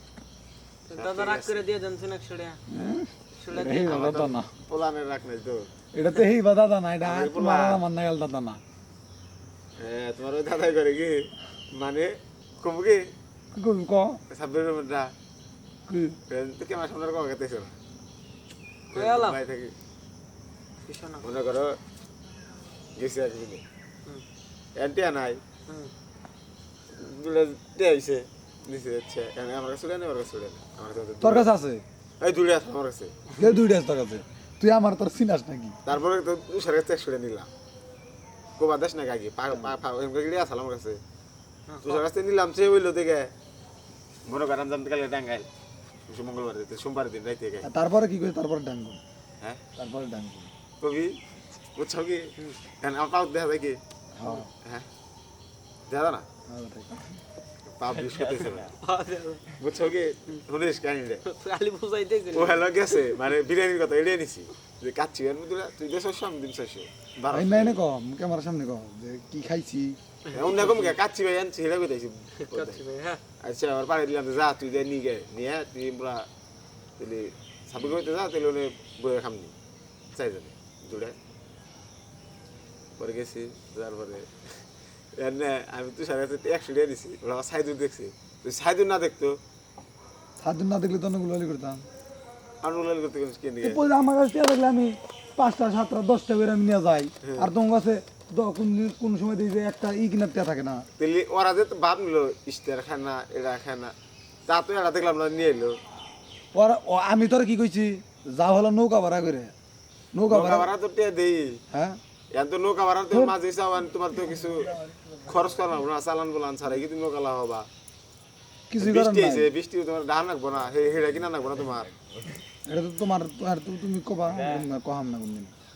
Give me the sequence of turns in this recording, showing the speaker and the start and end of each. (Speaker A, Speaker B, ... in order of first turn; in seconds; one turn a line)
Speaker A: 0.9-2.6
Speaker B: 0.9-1.6
Speaker C: 2.7-4.5
Speaker A: 3.4-4.2
Speaker B: 3.8-5.7
Speaker C: 5.9-8.6
Speaker B: 7.0-7.8
Speaker B: 9.8-13.0
Speaker C: 13.5-14.2
Speaker B: 14.3-15.1
Speaker C: 15.9-16.2
Speaker B: 16.3-17.8
Speaker A: 18.9-19.4
Speaker B: 18.9-19.7
Speaker A: 20.9-21.2
Speaker B: 21.2-21.8
Speaker B: 22.9-23.6
Speaker B: 24.8-25.4
Speaker B: 26.9-31.5
Speaker C: 31.2-31.8
Speaker B: 32.2-33.1
Speaker C: 33.4-35.8
Speaker B: 35.8-37.5
Speaker B: 38.6-41.0
Speaker A: 41.7-42.0
Speaker B: 41.8-43.3
Speaker B: 44.2-45.5
Speaker B: 46.1-47.7
Speaker C: 47.6-49.0
Speaker C: 49.8-50.5
Speaker B: 50.8-54.9
Speaker C: 54.1-54.5
Speaker B: 55.9-56.2
Speaker C: 56.5-57.2
Speaker B: 57.8-58.8
Speaker A: 58.3-59.5
Speaker B: 59.5-61.2
Speaker A: 61.2-63.1
Speaker B: 62.3-67.8
Speaker C: 67.3-70.0
Speaker B: 70.3-72.8
Speaker A: 70.5-70.9
Speaker A: 72.4-73.2
Speaker B: 73.4-76.3
Speaker B: 77.0-79.5
Speaker B: 80.1-81.2
Speaker B: 83.0-84.6
Speaker B: 85.2-89.4
Speaker C: 90.4-91.8
Speaker B: 92.6-93.8
Speaker C: 93.6-100.8
Speaker B: 97.2-97.5
Speaker B: 101.0-103.9
Speaker B: 104.5-105.8
Speaker C: 106.5-109.5
Speaker C: 110.1-110.7
Speaker B: 110.3-111.6
Speaker C: 111.7-112.0
Speaker B: 112.3-117.7
Speaker C: 118.7-119.5
Speaker B: 118.8-121.9
Speaker C: 122.7-125.5